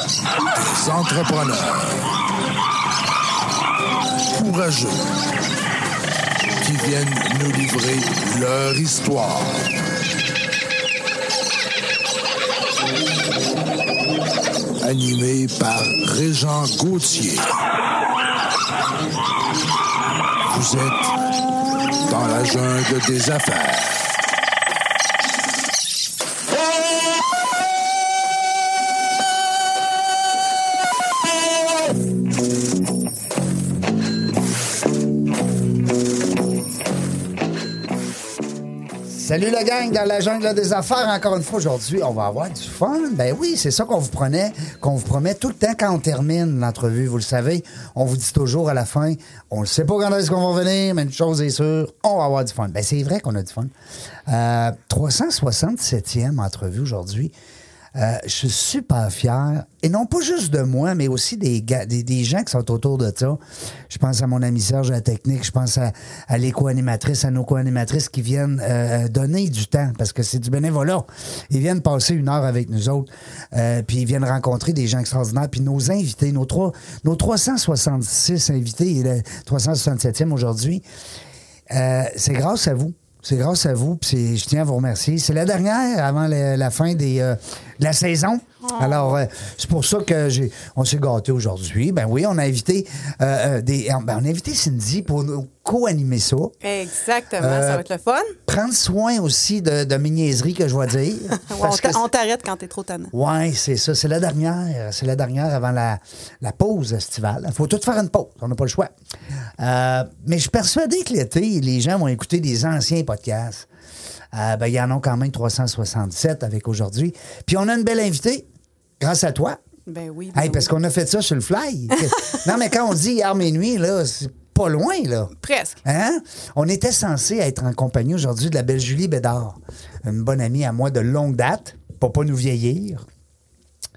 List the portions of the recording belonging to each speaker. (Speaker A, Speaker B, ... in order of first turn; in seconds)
Speaker A: 0.6-2.1, 4.3-5.1, 6.6-9.6, 14.8-17.5, 20.5-21.1, 22.1-24.1
Speaker B: 39.0-53.7, 54.3-57.3, 57.9-80.8, 81.7-96.5, 97.4-97.8, 98.5-102.0, 103.1-108.9, 109.6-113.7, 114.3-118.5, 119.0-119.6, 120.3-125.3, 125.8-133.0
Speaker C: 88.6-89.2, 96.6-98.3, 101.4-103.1, 119.9-120.7, 121.9-122.4, 125.4-125.8